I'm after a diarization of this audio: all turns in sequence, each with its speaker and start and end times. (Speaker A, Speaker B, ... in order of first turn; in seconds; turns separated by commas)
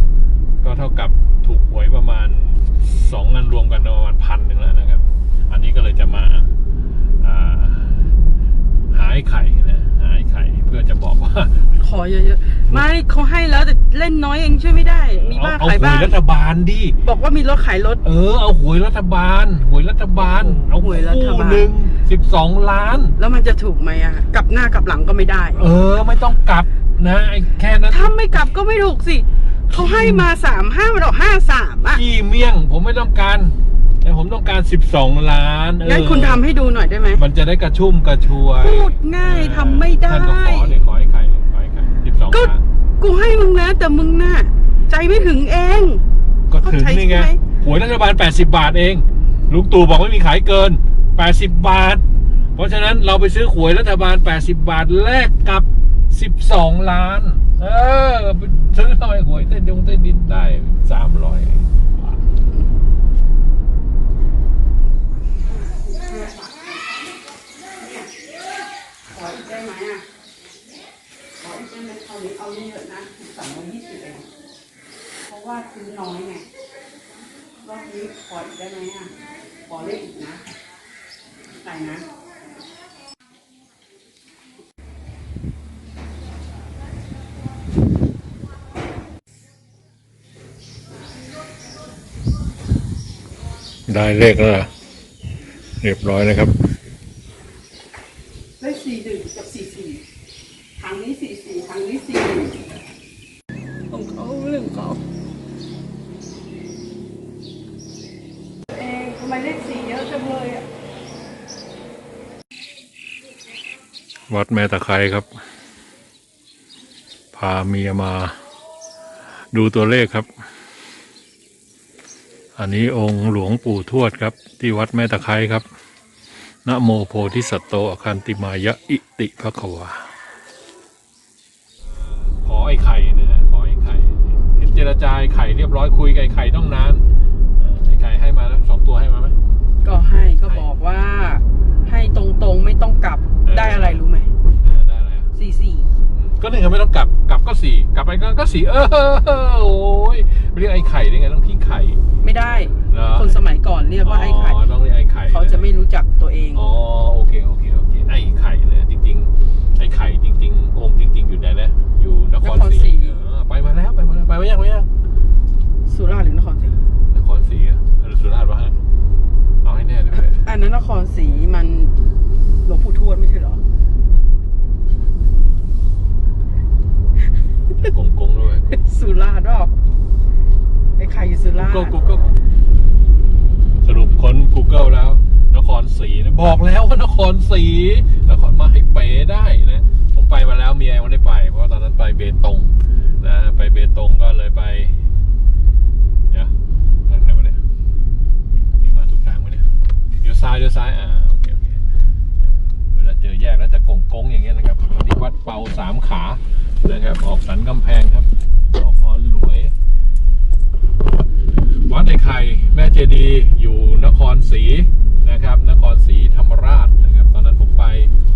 Speaker A: 0.6-6.5, Speaker A: 7.2-8.1, Speaker A: 8.9-11.8, Speaker B: 11.8-16.2, Speaker A: 15.1-17.0, Speaker B: 17.0-18.0, Speaker A: 18.0-23.2, Speaker B: 20.2-21.7, Speaker B: 23.2-25.7, Speaker A: 25.6-28.1, Speaker B: 27.9-32.0, Speaker A: 29.7-30.3, Speaker A: 31.9-36.4, Speaker B: 35.8-37.2, Speaker A: 37.1-42.6, Speaker B: 38.5-40.8, Speaker B: 42.3-46.0, Speaker A: 46.5-52.0, Speaker B: 46.6-47.4, Speaker A: 52.5-62.2, Speaker B: 65.6-66.8, Speaker B: 67.8-68.1, Speaker B: 69.1-70.1, Speaker B: 71.4-74.3, Speaker B: 75.3-76.5, Speaker B: 77.6-79.1, Speaker B: 79.7-80.5, Speaker B: 81.6-82.1, Speaker A: 93.9-94.7, Speaker A: 95.8-96.5, Speaker B: 98.6-100.0, Speaker B: 100.8-102.6, Speaker B: 103.9-105.0, Speaker B: 108.7-110.7, Speaker A: 114.3-115.3, Speaker A: 117.3-118.4, Speaker A: 119.5-120.3, Speaker A: 122.6-125.7, Speaker A: 126.7-130.1, Speaker A: 132.0-137.1, Speaker A: 137.6-139.4, Speaker B: 139.8-144.3, Speaker A: 143.4-144.1, Speaker A: 144.6-145.3, Speaker B: 145.3-145.9, Speaker A: 146.1-153.4, Speaker B: 152.2-154.6, Speaker A: 154.0-155.7, Speaker B: 155.3-156.7, Speaker A: 156.5-164.9, Speaker B: 162.4-163.2, Speaker B: 165.9-166.8, Speaker A: 167.1-168.8, Speaker A: 169.6-170.4, Speaker B: 170.1-172.0, Speaker B: 172.7-173.6, Speaker A: 177.8-178.8, Speaker B: 178.7-179.8, Speaker B: 181.0-182.0, Speaker A: 181.6-182.4, Speaker A: 183.8-195.0, Speaker A: 197.1-197.6, Speaker A: 198.8-201.8, Speaker A: 202.4-209.7, Speaker A: 211.9-218.1